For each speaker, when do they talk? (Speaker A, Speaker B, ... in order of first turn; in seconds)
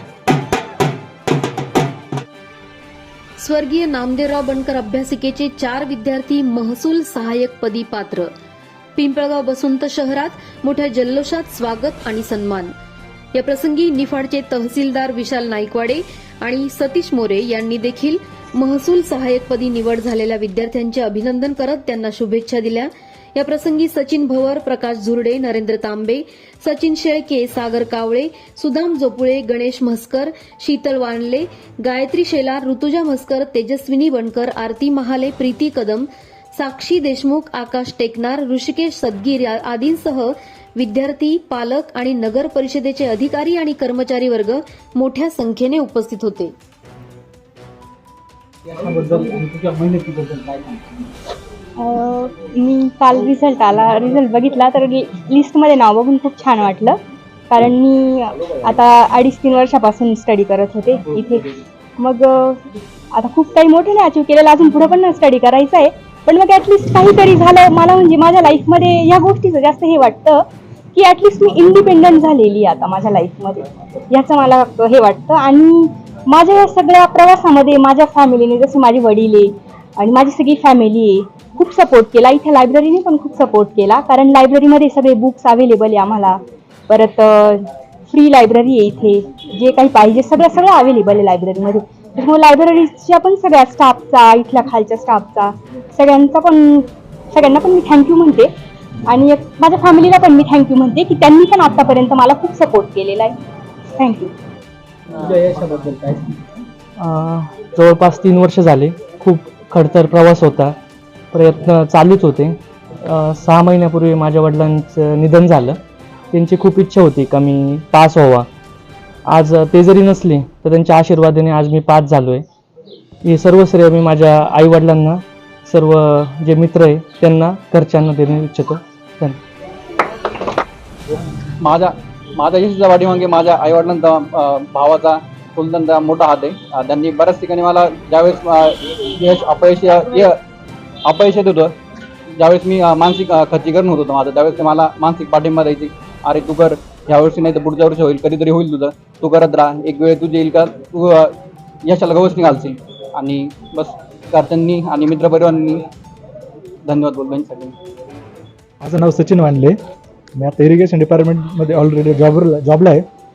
Speaker A: 3.4-8.3, 8.9-12.7, 13.3-46.5
Speaker B: 48.7-50.8, 105.3-105.9
Speaker C: 51.8-57.0, 57.5-61.4, 62.0-62.6, 63.1-70.4, 70.9-98.5, 99.1-103.3
Speaker D: 107.0-110.8, 111.3-115.8, 116.3-118.5, 119.3-122.4, 123.2-129.4
Speaker E: 131.6-140.4, 141.0-141.7, 142.4-151.3, 151.8-155.8, 156.9-157.7
Speaker F: 158.8-159.7, 160.4-163.0